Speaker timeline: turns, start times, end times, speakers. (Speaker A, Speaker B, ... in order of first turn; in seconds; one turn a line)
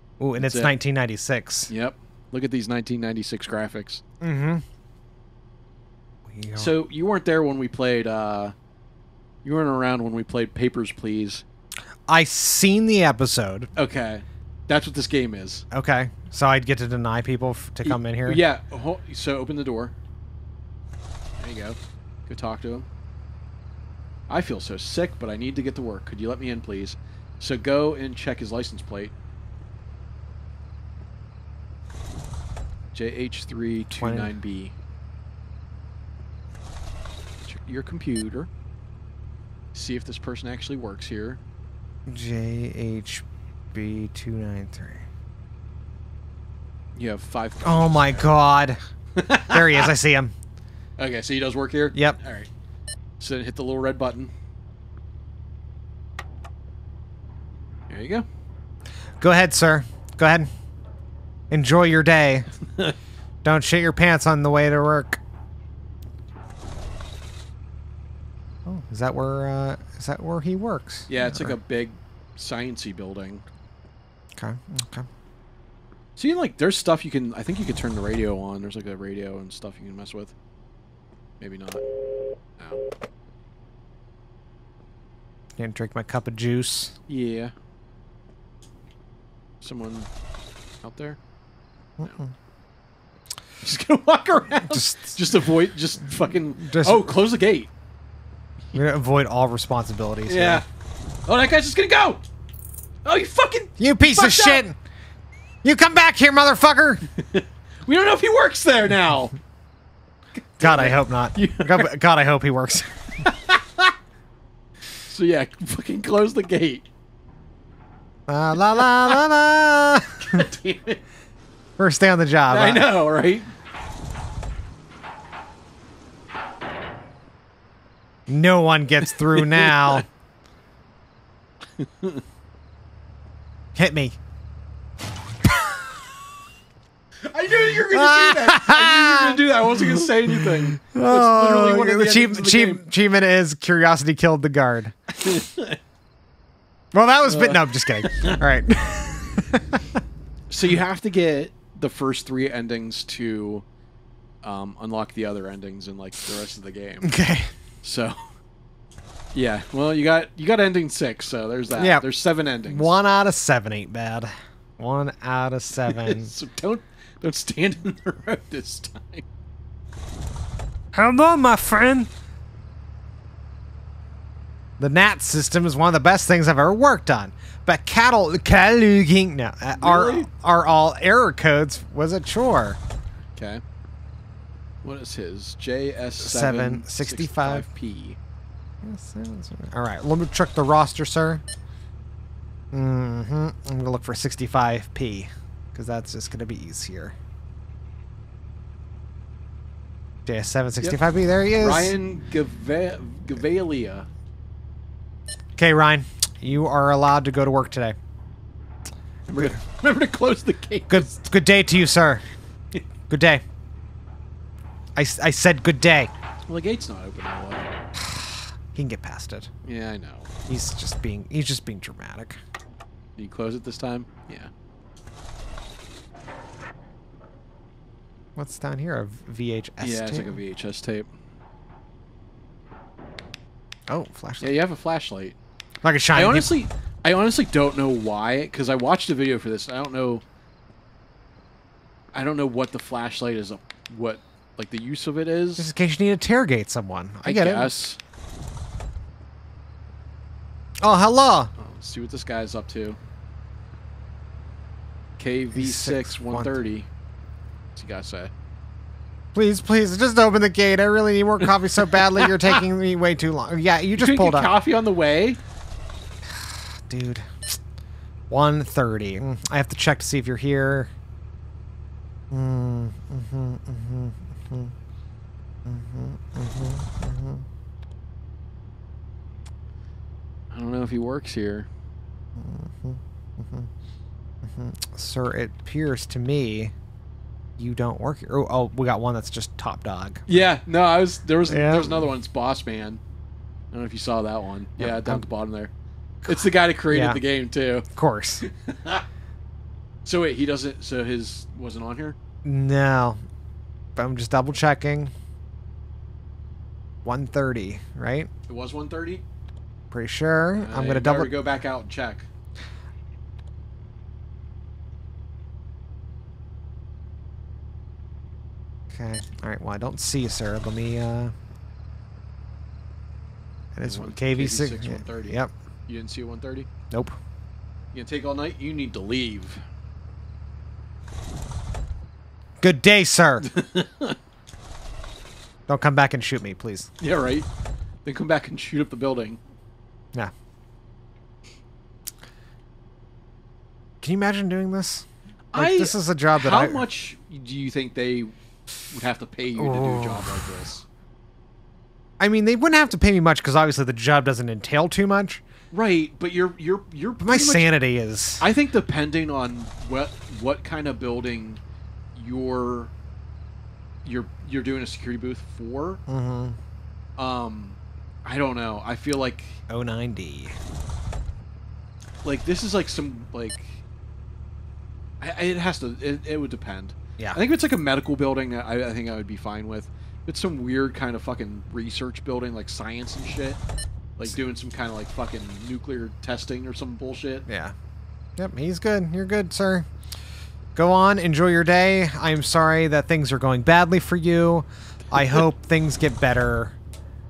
Speaker A: 0.2-1.7
Speaker B: 0.4-0.7
Speaker B: 1.7-4.0
Speaker A: 4.2-4.6
Speaker A: 6.3-6.7
Speaker B: 6.5-8.6
Speaker B: 9.4-11.4
Speaker A: 12.1-13.7
Speaker B: 13.8-15.7
Speaker A: 15.7-18.4
Speaker B: 17.9-19.9
Speaker B: 21.4-22.9
Speaker B: 24.3-29.1
Speaker B: 32.9-34.8
Speaker A: 34.0-34.3
Speaker B: 37.5-38.5
Speaker B: 39.7-41.4
Speaker A: 42.1-45.1
Speaker B: 47.0-48.3
Speaker A: 47.6-48.8
Speaker B: 49.2-49.9
Speaker A: 49.5-50.3
Speaker B: 51.0-52.5
Speaker B: 53.2-54.3
Speaker B: 57.9-58.3
Speaker A: 59.2-60.5
Speaker A: 61.5-62.5
Speaker A: 63.4-65.2
Speaker A: 68.7-71.6
Speaker B: 71.1-73.4
Speaker A: 74.3-75.1
Speaker B: 76.2-80.3
Speaker B: 81.4-81.8
Speaker A: 85.6-87.0
Speaker B: 87.1-87.5
Speaker B: 89.6-90.1
Speaker B: 90.8-91.2
Speaker A: 92.0-92.3
Speaker B: 93.6-97.7
Speaker A: 94.7-95.2
Speaker A: 96.6-97.2
Speaker A: 98.7-100.6
Speaker B: 100.3-100.6
Speaker B: 101.3-102.2
Speaker B: 103.0-104.6
Speaker A: 103.8-104.8
Speaker A: 105.6-107.0
Speaker B: 107.1-109.3
Speaker B: 110.4-111.9
Speaker A: 110.6-113.0
Speaker B: 113.2-113.9
Speaker B: 115.0-116.9
Speaker A: 118.3-120.5
Speaker B: 118.7-119.2
Speaker B: 120.2-121.0
Speaker A: 121.8-122.9
Speaker B: 122.5-123.5
Speaker A: 128.3-130.1
Speaker B: 129.2-130.0
Speaker B: 131.8-132.2
Speaker A: 133.8-134.2
Speaker B: 137.2-142.8
Speaker A: 137.9-145.0
Speaker B: 145.1-145.8
Speaker A: 146.9-150.0
Speaker B: 147.2-148.4
Speaker B: 150.5-153.7
Speaker B: 154.4-157.2
Speaker A: 157.0-157.5
Speaker B: 157.8-158.3
Speaker B: 159.3-162.9
Speaker A: 161.8-162.0
Speaker A: 162.7-166.3
Speaker B: 165.8-169.2
Speaker A: 170.9-172.1
Speaker A: 174.8-182.8
Speaker B: 179.8-180.3
Speaker B: 183.4-183.6
Speaker B: 184.8-188.2
Speaker A: 186.2-187.7
Speaker A: 188.8-191.4
Speaker A: 192.7-197.2
Speaker A: 200.3-201.9
Speaker B: 201.6-204.1
Speaker A: 205.6-208.0
Speaker B: 209.3-211.1
Speaker A: 210.9-212.2
Speaker A: 213.1-213.4
Speaker A: 215.0-216.1
Speaker B: 216.5-217.7
Speaker A: 218.0-219.5
Speaker B: 219.7-220.3
Speaker A: 220.5-222.4
Speaker B: 223.2-224.5
Speaker A: 228.4-230.4
Speaker B: 229.8-231.1
Speaker A: 233.9-234.6
Speaker B: 234.4-235.4
Speaker A: 235.8-236.5
Speaker B: 236.1-240.2
Speaker B: 242.1-245.7
Speaker A: 245.6-247.7
Speaker B: 247.2-248.0
Speaker A: 250.8-251.5
Speaker B: 251.6-253.0
Speaker B: 255.2-256.9
Speaker A: 255.5-256.6
Speaker B: 257.8-258.3
Speaker A: 259.3-264.5
Speaker B: 262.2-262.6
Speaker B: 264.0-265.4
Speaker A: 266.3-267.6
Speaker A: 268.3-270.9
Speaker A: 272.3-274.7
Speaker A: 275.6-277.5
Speaker B: 280.5-281.7
Speaker A: 282.4-283.7
Speaker A: 284.4-286.7
Speaker A: 287.6-290.2
Speaker B: 290.3-293.0
Speaker A: 291.5-292.1
Speaker B: 293.7-295.7
Speaker A: 294.8-295.3
Speaker A: 296.2-297.2
Speaker B: 296.3-297.9
Speaker A: 297.9-298.4
Speaker B: 298.4-299.1
Speaker B: 300.1-302.2
Speaker A: 302.4-303.2
Speaker A: 304.0-305.1
Speaker A: 307.0-308.3
Speaker B: 308.5-309.2
Speaker A: 309.9-311.4
Speaker B: 310.6-312.3
Speaker A: 318.9-321.4
Speaker A: 323.8-325.5
Speaker B: 323.8-326.7
Speaker A: 326.9-327.2
Speaker B: 327.9-329.6
Speaker A: 332.6-333.5
Speaker B: 333.4-334.2
Speaker A: 335.7-336.9
Speaker B: 337.0-337.5
Speaker B: 338.1-339.4
Speaker A: 344.0-346.8
Speaker B: 345.5-348.4
Speaker B: 348.9-350.9
Speaker A: 349.6-350.6
Speaker A: 352.2-355.4
Speaker B: 355.7-357.7
Speaker A: 357.2-358.4
Speaker B: 358.4-361.6
Speaker B: 362.1-362.9
Speaker B: 364.1-366.0
Speaker A: 366.1-366.6
Speaker B: 367.2-369.6
Speaker A: 369.7-370.6
Speaker B: 372.2-373.8
Speaker B: 375.2-383.6
Speaker B: 384.2-387.5
Speaker A: 387.5-387.8
Speaker A: 388.4-389.9
Speaker A: 390.8-396.8